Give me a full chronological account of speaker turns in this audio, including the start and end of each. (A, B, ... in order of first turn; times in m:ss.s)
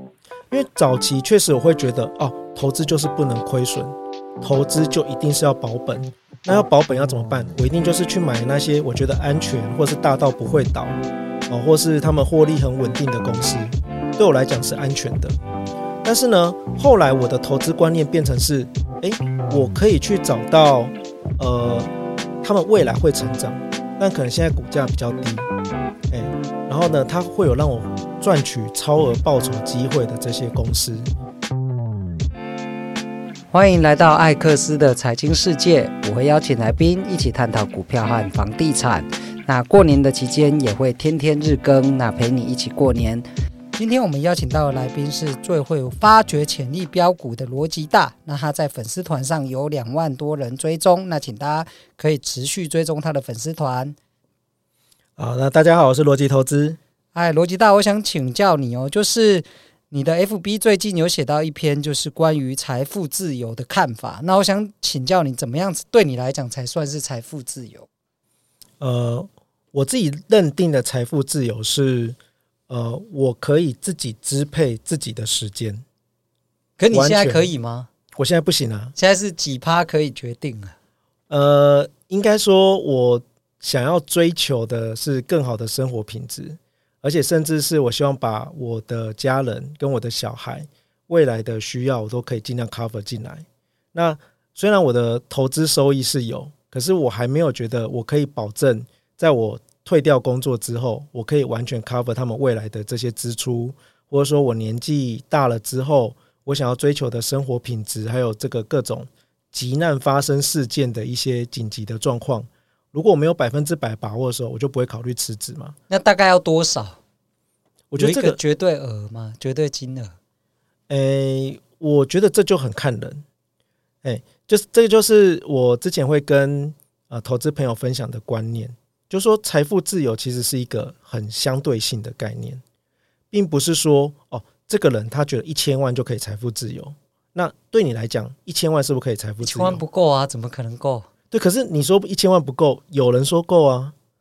0:00.5-0:11.0 A
0:11.5-0:15.4 A
0:16.0-0:21.9 A
0:22.4-0:25.5 A
0:26.1-0:31.1 A
0:33.5-0:54.0 B
0:55.2-0:56.8 A
0:57.1-1:07.9 B
1:08.8-1:12.2 A
1:12.7-1:15.8 A
1:16.8-1:17.9 B
1:16.9-1:17.5 A
1:18.2-1:18.9 A
1:19.0-1:20.7 B
1:21.3-1:55.8 A
1:55.9-1:57.0 B
1:57.9-1:58.4 A
1:58.0-2:00.2 B
2:00.9-2:03.2 A
2:04.0-2:12.6 A
2:13.3-2:19.8 A
2:19.4-2:21.1 B
2:21.3-2:23.9 A